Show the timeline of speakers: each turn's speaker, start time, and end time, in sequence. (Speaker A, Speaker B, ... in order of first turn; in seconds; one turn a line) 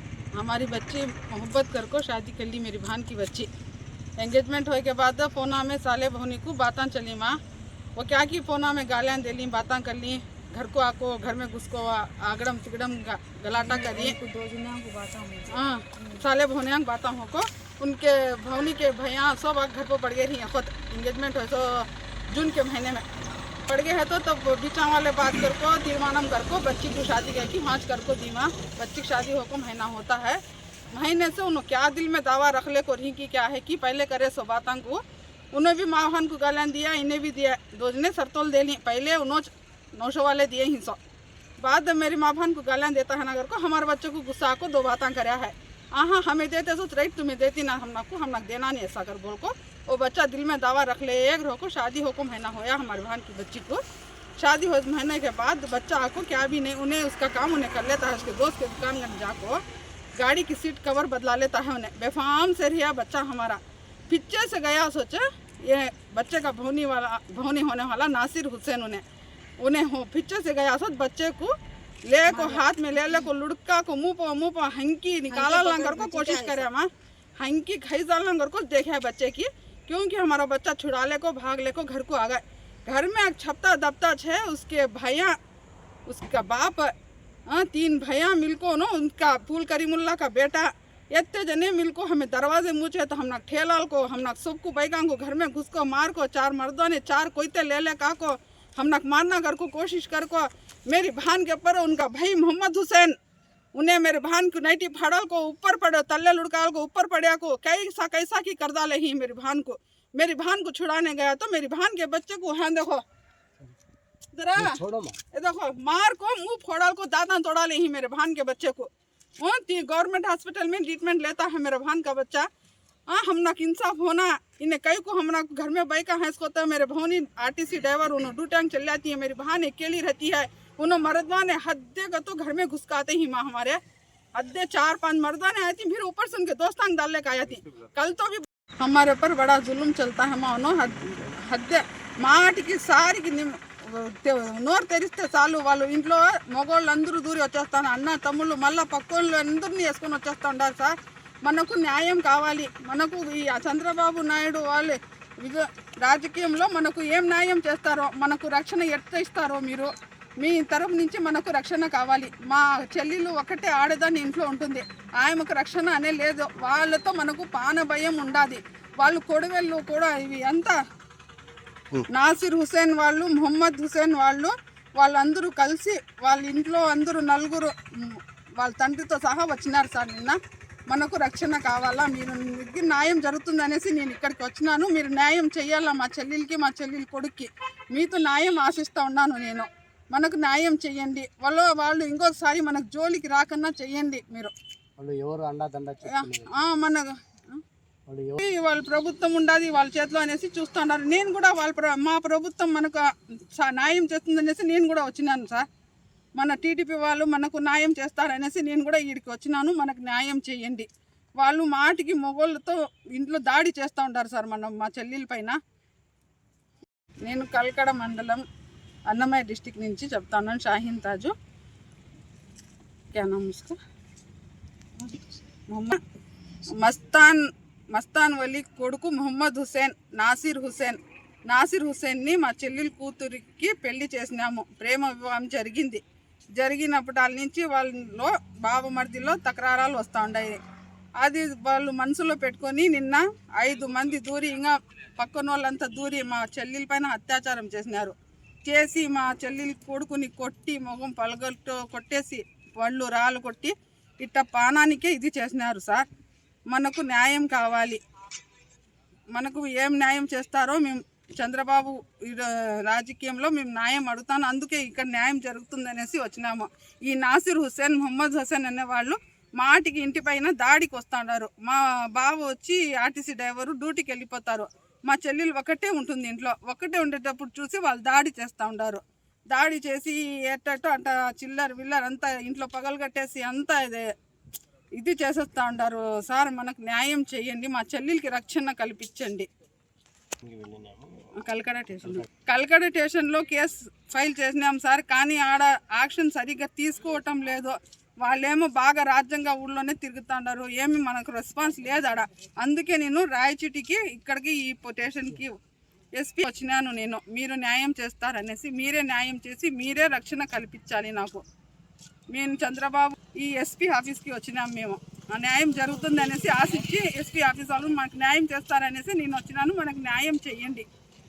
Speaker A: 0.3-3.5
Speaker A: 4.2-7.4
Speaker A: 8.0-14.2
Speaker B: 13.5-16.2
Speaker A: 15.5-23.1
Speaker A: 23.7-30.4
Speaker A: 30.9-35.0
Speaker A: 35.5-41.0
Speaker A: 41.6-53.8
Speaker A: 54.4-59.6
Speaker A: 60.1-69.0
Speaker A: 69.6-71.5
Speaker A: 72.1-85.4
Speaker B: 72.3-73.3
Speaker B: 75.3-76.7
Speaker A: 86.1-86.9
Speaker A: 87.5-103.2
Speaker A: 103.7-113.0
Speaker A: 114.3-122.5
Speaker C: 114.5-115.2
Speaker A: 123.1-133.8
Speaker A: 134.3-170.8
Speaker A: 172.1-180.4
Speaker A: 180.9-194.5
Speaker C: 195.0-196.6
Speaker A: 196.0-197.6
Speaker C: 198.1-198.4
Speaker A: 198.4-205.7
Speaker A: 206.4-210.9
Speaker A: 211.4-215.6
Speaker A: 217.2-218.4
Speaker A: 219.1-221.3
Speaker A: 223.1-223.8
Speaker A: 225.7-226.0
Speaker A: 226.7-236.0
Speaker A: 236.6-240.6
Speaker A: 241.2-256.1
Speaker A: 256.7-258.0
Speaker A: 259.3-284.1
Speaker A: 285.0-289.5
Speaker C: 290.4-291.3
Speaker A: 291.3-305.6
Speaker A: 306.1-311.4
Speaker A: 312.3-320.9